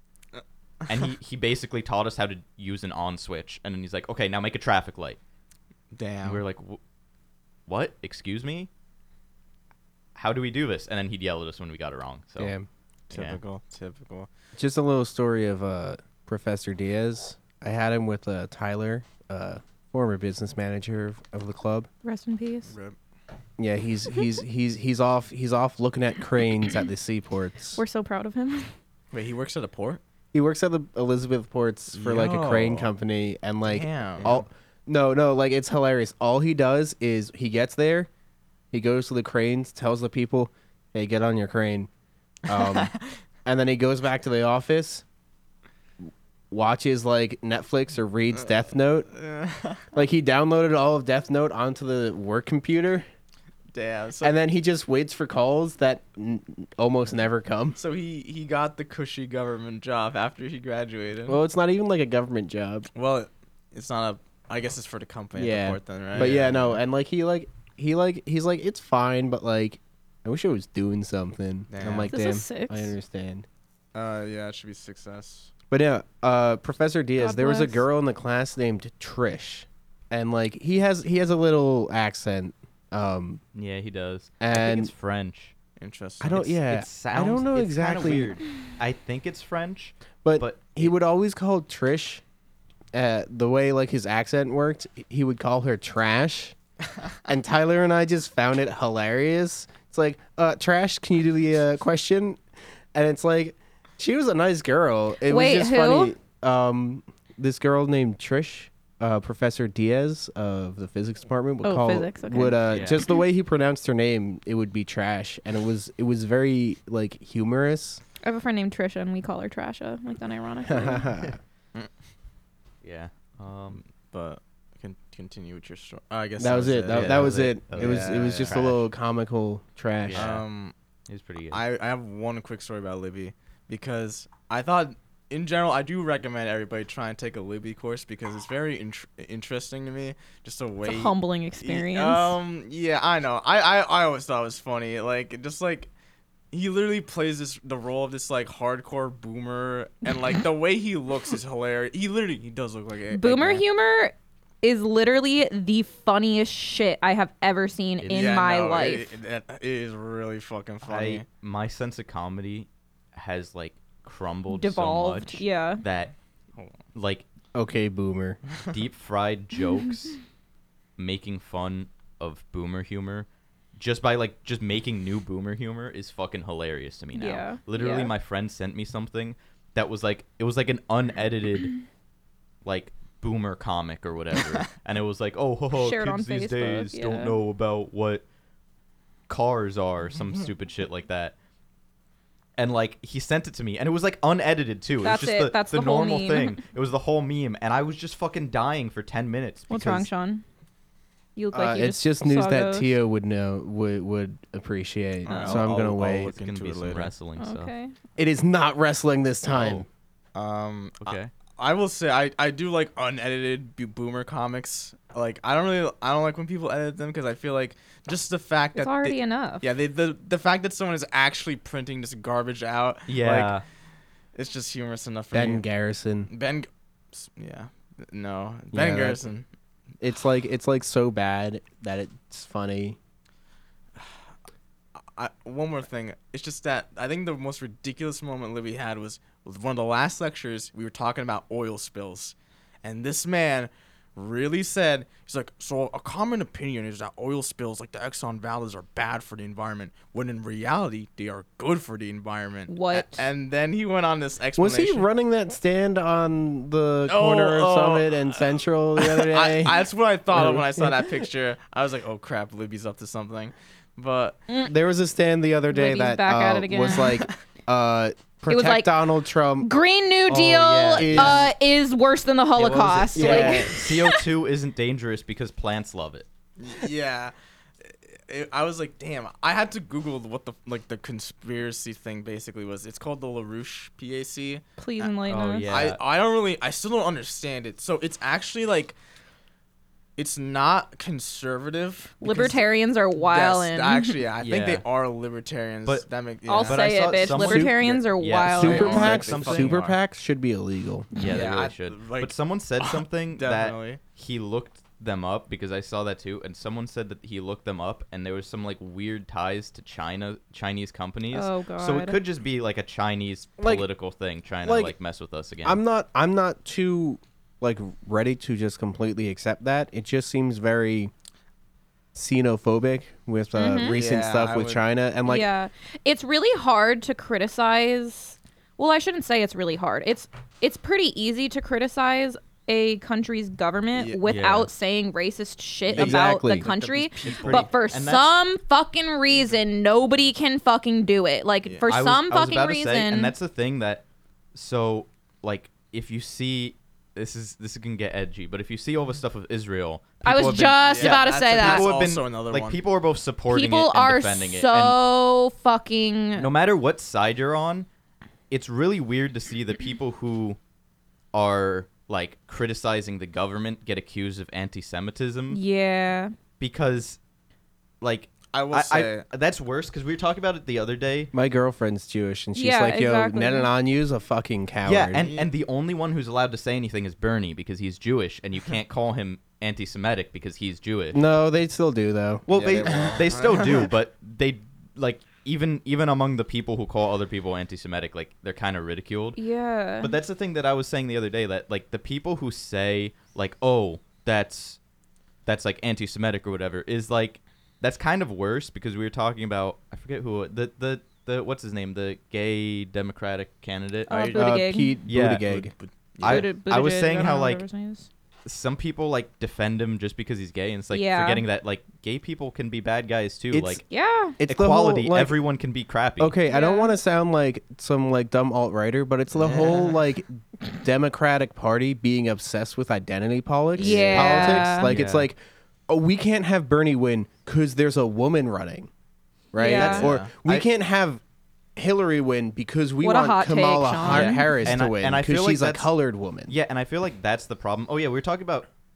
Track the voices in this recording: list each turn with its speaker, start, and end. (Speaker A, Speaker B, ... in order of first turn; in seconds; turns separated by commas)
Speaker A: 0.3-1.0, Speaker B: 0.9-5.2, Speaker A: 5.9-6.4, Speaker B: 6.2-6.8, Speaker B: 7.7-8.7, Speaker B: 10.1-12.5, Speaker C: 12.4-12.7, Speaker A: 13.1-14.3, Speaker B: 13.1-13.4, Speaker C: 14.6-21.9, Speaker D: 22.0-22.7, Speaker A: 22.6-22.9, Speaker C: 23.6-27.8, Speaker D: 27.8-28.7, Speaker A: 29.1-30.0, Speaker C: 30.3-38.1, Speaker A: 31.9-32.9, Speaker A: 33.6-34.4, Speaker C: 38.7-41.9, Speaker C: 42.5-42.9, Speaker A: 42.5-43.0, Speaker C: 43.4-45.0, Speaker C: 46.5-49.1, Speaker A: 49.1-49.8, Speaker C: 49.9-53.0, Speaker A: 53.7-54.3, Speaker C: 54.2-57.8, Speaker A: 57.8-61.4, Speaker C: 61.3-62.9, Speaker A: 62.9-66.8, Speaker C: 65.3-73.4, Speaker A: 71.7-72.1, Speaker D: 72.1-72.9, Speaker A: 73.9-75.5, Speaker C: 75.7-83.4, Speaker D: 77.2-77.8, Speaker B: 83.5-85.5, Speaker C: 84.4-84.9, Speaker A: 85.8-86.6, Speaker C: 86.2-88.3, Speaker B: 86.7-90.9, Speaker C: 90.2-92.2, Speaker C: 92.9-96.5, Speaker C: 97.2-102.4, Speaker C: 102.9-118.0, Speaker D: 105.2-106.1, Speaker D: 111.6-113.0, Speaker B: 112.7-113.0, Speaker D: 118.2-121.2, Speaker C: 120.7-121.4, Speaker B: 122.8-123.8, Speaker A: 124.1-128.7, Speaker C: 126.4-130.3, Speaker B: 126.9-128.8, Speaker B: 130.1-130.4, Speaker A: 130.1-130.7, Speaker B: 131.1-131.6, Speaker A: 131.5-145.9, Speaker D: 140.8-142.4, Speaker A: 146.5-153.6, Speaker D: 153.1-159.1, Speaker B: 158.0-158.4, Speaker A: 158.1-161.2, Speaker B: 160.8-166.1, Speaker D: 164.5-165.8, Speaker B: 166.9-167.2, Speaker C: 167.5-168.4, Speaker B: 168.7-170.2, Speaker B: 171.0-181.7, Speaker D: 177.1-178.1, Speaker B: 182.6-188.2, Speaker D: 185.7-187.3, Speaker B: 189.3-191.3, Speaker B: 192.6-200.1, Speaker D: 195.0-196.6, Speaker D: 199.7-200.4, Speaker D: 201.3-202.9, Speaker C: 201.5-206.3, Speaker A: 205.2-207.1, Speaker B: 205.3-207.7, Speaker D: 207.4-207.9, Speaker C: 208.2-209.8, Speaker B: 209.5-209.8, Speaker A: 210.3-223.6, Speaker B: 211.0-211.3, Speaker D: 218.7-219.7, Speaker B: 223.1-223.6, Speaker A: 224.3-225.6, Speaker C: 225.3-226.3, Speaker A: 226.3-229.4, Speaker C: 228.7-229.2, Speaker C: 230.0-233.0, Speaker A: 235.0-255.1, Speaker D: 252.7-253.3, Speaker C: 254.6-261.3, Speaker A: 257.1-264.4, Speaker D: 264.5-264.7, Speaker C: 264.6-269.7, Speaker D: 265.7-267.2, Speaker A: 267.0-267.3, Speaker D: 268.5-268.9, Speaker D: 269.6-274.2, Speaker B: 270.3-271.4, Speaker C: 270.9-271.5, Speaker B: 272.5-276.2, Speaker C: 273.1-273.8, Speaker A: 276.6-285.1, Speaker D: 284.8-285.7, Speaker B: 285.2-286.0, Speaker A: 285.7-288.9, Speaker A: 290.2-292.6, Speaker D: 292.2-294.2, Speaker A: 293.1-298.0, Speaker B: 294.4-294.8, Speaker D: 296.4-299.1, Speaker B: 296.6-299.8, Speaker C: 297.3-297.9, Speaker C: 298.5-301.1, Speaker A: 298.6-300.0, Speaker B: 301.1-315.8, Speaker A: 301.3-304.0, Speaker D: 311.3-312.2, Speaker C: 313.6-313.9, Speaker C: 314.6-314.9, Speaker C: 315.6-321.1, Speaker C: 322.1-325.5, Speaker D: 323.5-324.0, Speaker A: 323.9-324.8, Speaker D: 325.2-343.3, Speaker A: 333.9-334.2, Speaker B: 334.2-334.7, Speaker A: 335.9-337.8, Speaker C: 335.9-336.7, Speaker B: 337.5-338.3, Speaker A: 341.6-341.9, Speaker B: 341.9-355.0, Speaker D: 350.2-351.9, Speaker A: 350.5-352.8, Speaker D: 353.5-356.5, Speaker B: 356.4-357.9, Speaker B: 358.5-360.6, Speaker B: 361.3-365.6, Speaker D: 365.5-366.3, Speaker B: 366.6-367.2, Speaker B: 368.0-371.3, Speaker A: 368.5-369.2, Speaker C: 371.3-375.3, Speaker D: 372.5-373.7, Speaker B: 374.8-381.2, Speaker A: 375.1-375.5, Speaker C: 381.1-383.2, Speaker B: 382.5-389.4, Speaker A: 382.5-383.9, Speaker D: 389.4-390.1, Speaker B: 390.0-394.8, Speaker B: 395.4-404.4, Speaker D: 404.1-405.0, Speaker A: 404.1-404.4, Speaker C: 404.3-405.7, Speaker B: 405.1-405.5, Speaker A: 405.4-406.5, Speaker B: 406.2-407.6, Speaker D: 406.2-408.1, Speaker B: 408.4-413.8, Speaker D: 410.9-411.4, Speaker C: 413.5-413.8, Speaker D: 413.9-414.4, Speaker C: 414.4-415.4, Speaker B: 414.4-416.3, Speaker C: 416.2-428.9, Speaker D: 416.4-416.9, Speaker A: 419.3-420.0, Speaker D: 423.8-424.9, Speaker A: 423.8-424.5, Speaker B: 423.8-425.3, Speaker C: 429.5-431.2, Speaker D: 429.6-430.1, Speaker B: 429.7-430.6, Speaker A: 429.7-430.3, Speaker C: 431.8-436.5, Speaker D: 433.0-434.7, Speaker B: 434.0-435.9, Speaker B: 436.5-438.7